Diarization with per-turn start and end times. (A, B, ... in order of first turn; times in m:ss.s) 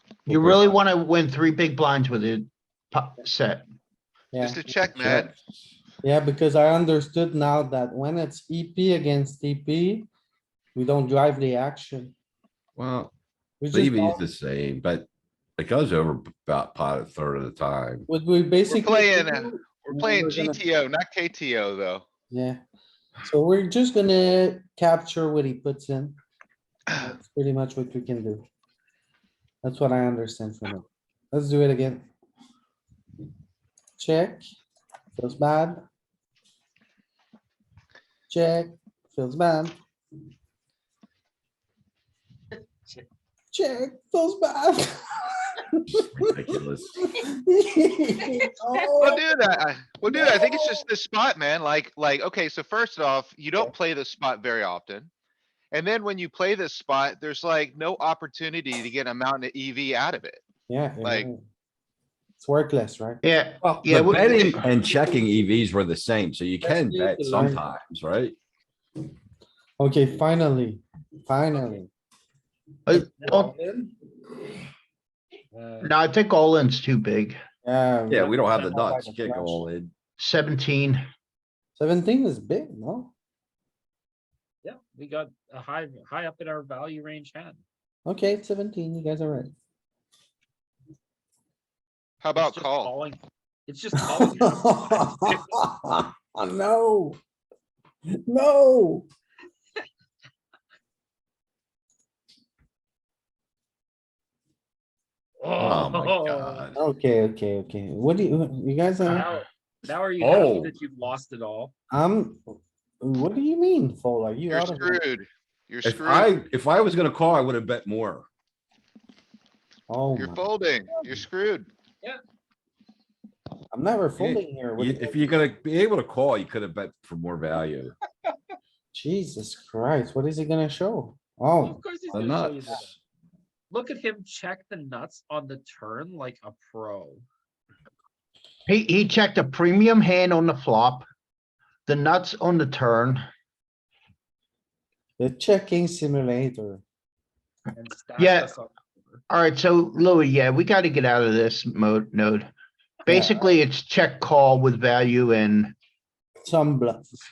0:00.3-0:03.6 A
0:04.3-0:05.3 B
0:04.4-0:05.3 C
0:06.0-0:10.1 B
0:10.8-0:12.1 B
0:12.8-0:13.1 D
0:13.6-0:14.2 B
0:13.7-0:18.1 D
0:18.1-0:20.6 B
0:18.7-0:22.0 C
0:22.3-0:22.6 B
0:23.2-0:26.2 B
0:27.0-0:28.4 B
0:29.6-0:32.1 B
0:34.0-0:34.4 B
0:35.2-0:35.8 B
0:38.3-0:39.8 B
0:43.5-0:49.3 B
0:46.2-0:47.0 D
0:49.0-0:55.1 C
0:50.1-0:50.8 B
0:55.7-1:00.4 C
1:00.7-1:01.4 B
1:01.0-1:01.3 C
1:02.4-1:03.2 B
1:03.2-1:04.6 A
1:03.8-1:08.4 D
1:06.6-1:07.6 B
1:09.8-1:11.9 B
1:12.9-1:13.5 A
1:12.9-1:13.9 B
1:15.5-1:15.9 E
1:15.8-1:17.4 A
1:17.6-1:19.6 B
1:18.1-1:19.9 D
1:20.2-1:21.0 A
1:21.8-1:23.1 B
1:24.6-1:27.6 E
1:28.1-1:29.5 B
1:32.2-1:32.9 C
1:32.4-1:35.6 E
1:34.0-1:37.2 B
1:38.3-1:39.1 B
1:45.4-1:46.6 E
1:45.6-1:46.8 D
1:46.8-1:49.3 B
1:49.0-1:51.7 E
1:50.2-1:50.7 D
1:51.9-1:55.0 B
1:54.5-1:56.4 C
1:55.8-1:58.3 D
1:59.9-2:00.5 B
2:00.2-2:01.7 C
2:03.7-2:05.4 B
2:04.2-2:07.9 D
2:08.9-2:12.3 B
2:11.6-2:12.9 E
2:12.1-2:12.9 D
2:13.7-2:17.2 E
2:18.7-2:21.1 A
2:21.9-2:23.2 A
2:25.2-2:26.8 B
2:27.8-2:29.2 E
2:28.2-2:28.5 A
2:29.3-2:32.5 A
2:33.1-2:35.8 A
2:33.1-2:33.5 B
2:36.5-2:37.2 B